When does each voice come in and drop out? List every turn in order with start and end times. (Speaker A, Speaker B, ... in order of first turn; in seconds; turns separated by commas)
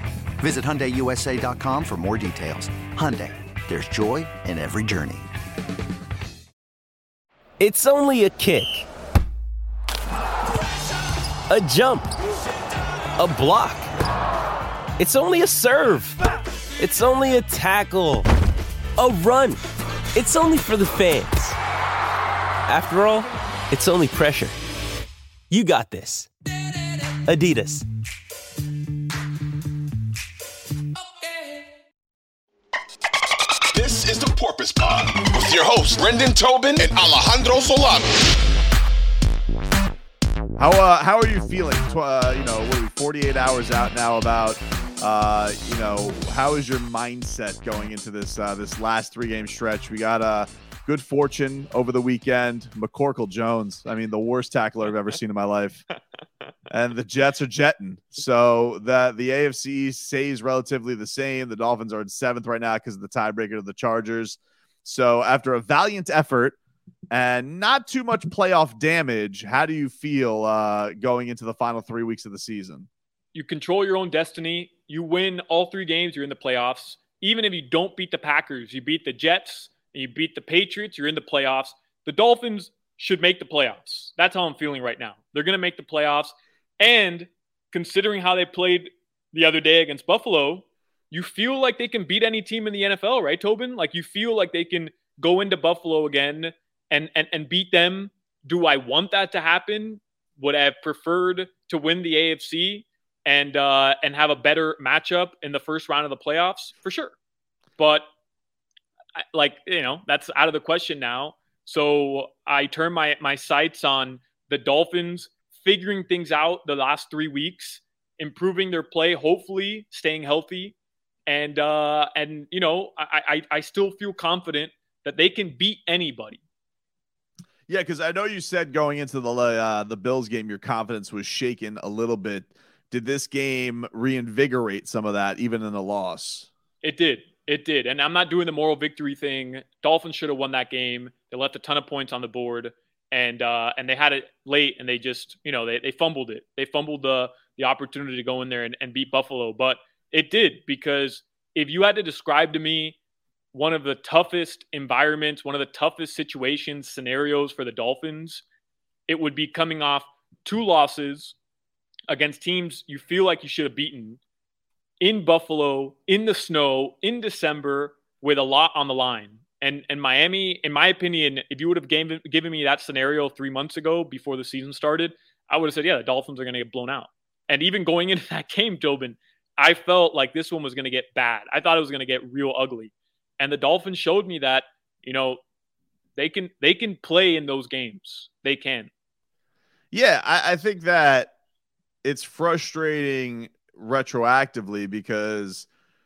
Speaker A: 0.4-5.3, Speaker B: 7.6-8.8, Speaker B: 11.5-12.1, Speaker B: 13.2-13.8, Speaker B: 15.0-16.2, Speaker B: 16.8-18.2, Speaker B: 19.0-19.6, Speaker B: 20.1-21.6, Speaker B: 22.6-24.5, Speaker B: 25.5-26.3, Speaker B: 27.2-27.8, Speaker C: 33.7-38.1, Speaker D: 40.6-55.8, Speaker D: 56.7-66.6, Speaker D: 67.1-72.9, Speaker E: 73.3-107.1, Speaker E: 107.8-108.0, Speaker E: 109.3-120.7, Speaker E: 121.3-126.4, Speaker D: 127.7-136.5, Speaker E: 136.8-153.0, Speaker E: 153.5-158.4, Speaker E: 159.1-161.3, Speaker E: 162.1-164.2, Speaker E: 165.0-185.4, Speaker E: 186.1-188.9, Speaker D: 189.9-191.3, Speaker D: 192.0-195.7